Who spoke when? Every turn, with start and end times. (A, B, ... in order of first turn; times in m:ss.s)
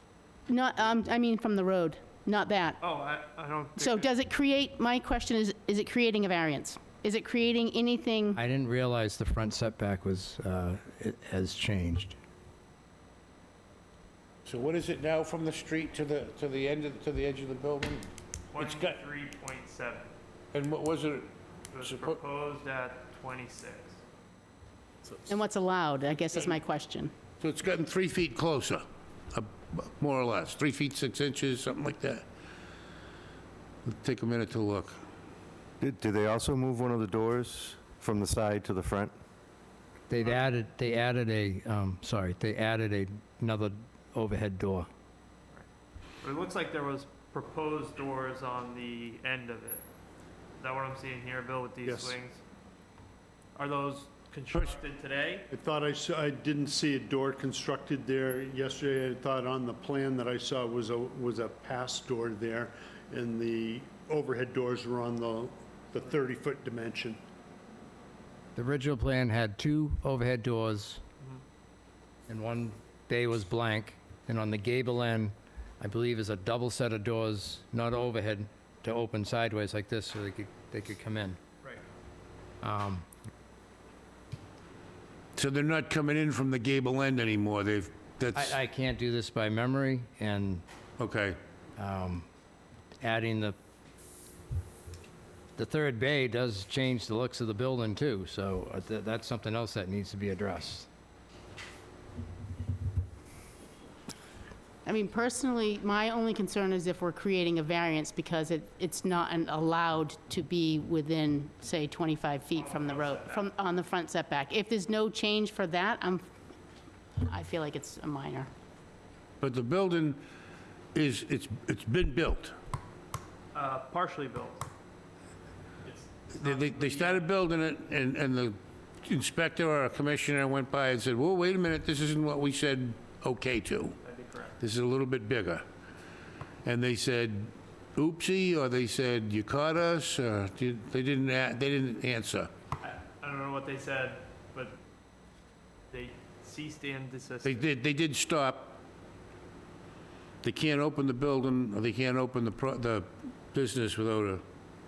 0:00.5-0:02.8 A
0:02.8-0:04.1 B
0:03.8-0:08.4 A
0:08.3-0:12.2 C
0:14.4-0:19.0 D
0:18.5-0:20.1 B
0:20.5-0:21.3 D
0:21.7-0:24.0 B
0:21.8-0:22.2 D
0:25.3-0:27.1 A
0:27.4-0:32.2 D
0:33.8-0:35.0 D
0:35.8-0:39.1 E
0:40.1-0:44.9 C
0:46.2-0:49.8 B
0:50.6-0:52.4 B
0:51.8-0:52.1 F
0:53.5-0:55.5 B
0:55.5-1:07.2 F
1:08.6-1:11.0 C
1:12.3-1:21.4 C
1:22.6-1:23.0 C
1:25.4-1:28.6 D
1:28.3-1:30.6 C
1:31.0-1:31.4 D
1:31.8-1:32.3 C
1:33.0-1:33.6 C
1:35.6-1:40.9 C
1:44.8-1:56.2 A
1:52.5-1:53.5 B
1:57.2-1:58.5 A
1:59.4-2:00.2 D
2:00.9-2:02.5 D
2:03.5-2:04.7 B
2:05.8-2:07.3 B
2:06.3-2:14.0 D
2:14.0-2:14.6 B
2:14.6-2:15.6 D
2:16.6-2:22.5 D
2:22.8-2:24.8 B
2:25.9-2:27.7 B
2:27.4-2:28.8 D
2:30.4-2:34.4 D